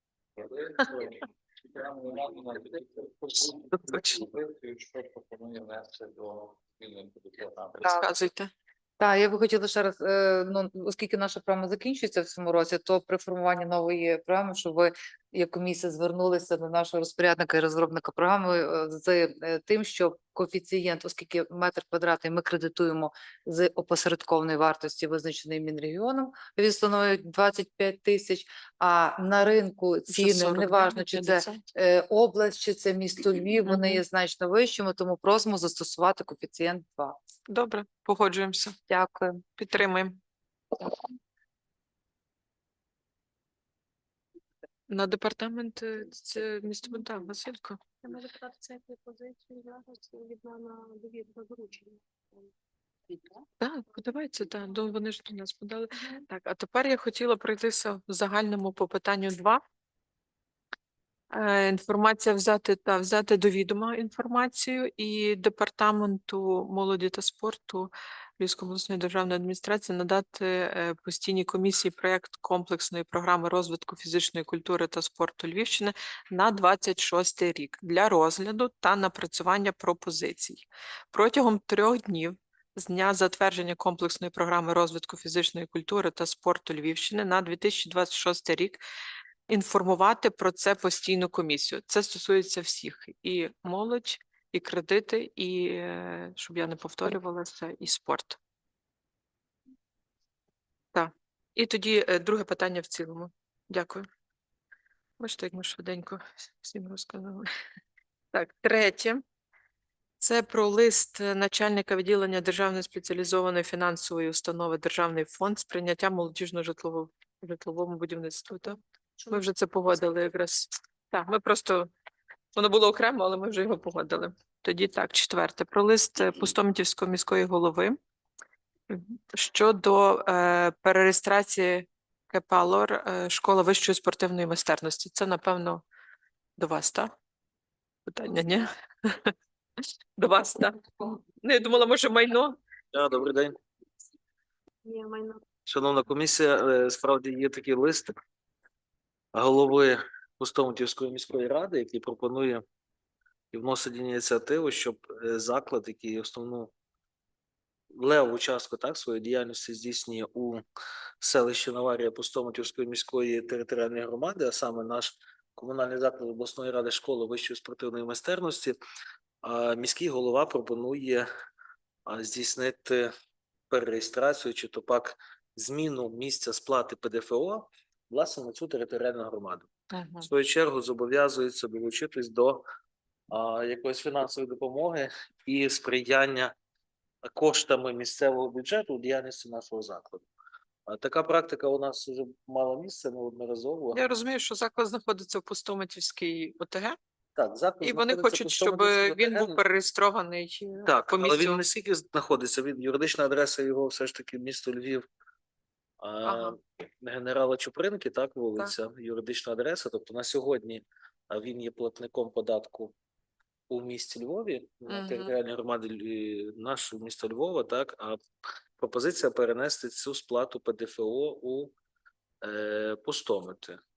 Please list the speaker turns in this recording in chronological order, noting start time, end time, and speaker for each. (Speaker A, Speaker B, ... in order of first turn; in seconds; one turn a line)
Speaker A: 0.4-7.9
Speaker B: 7.8-8.5
Speaker C: 9.0-37.2
Speaker B: 30.1-31.6
Speaker B: 33.6-34.0
Speaker B: 37.5-38.8
Speaker C: 38.9-39.4
Speaker B: 39.6-40.2
Speaker B: 44.9-47.8
Speaker D: 48.0-52.0
Speaker B: 53.6-59.6
Speaker B: 61.3-88.8
Speaker B: 89.5-98.4
Speaker B: 100.9-104.1
Speaker B: 105.2-107.5
Speaker B: 108.3-109.2
Speaker B: 110.2-121.9
Speaker B: 122.5-128.0
Speaker B: 128.9-135.8
Speaker B: 136.6-137.1
Speaker B: 138.1-139.3
Speaker B: 140.2-142.6
Speaker E: 142.9-143.6
Speaker D: 144.8-145.4
Speaker E: 145.7-148.1
Speaker E: 149.3-152.6
Speaker E: 153.5-156.7
Speaker E: 157.9-160.6
Speaker E: 161.2-168.8
Speaker E: 169.4-171.3
Speaker E: 172.1-173.1
Speaker E: 173.7-179.7
Speaker B: 179.9-180.3
Speaker E: 180.2-182.6
Speaker E: 183.3-186.5
Speaker E: 187.2-190.2
Speaker E: 190.9-194.1
Speaker B: 193.9-197.0
Speaker E: 197.4-199.6
Speaker B: 197.8-201.6
Speaker E: 200.9-205.0
Speaker E: 206.0-212.9
Speaker B: 206.2-206.6
Speaker E: 213.7-218.2
Speaker B: 214.9-215.3
Speaker E: 218.8-221.7
Speaker E: 222.4-223.8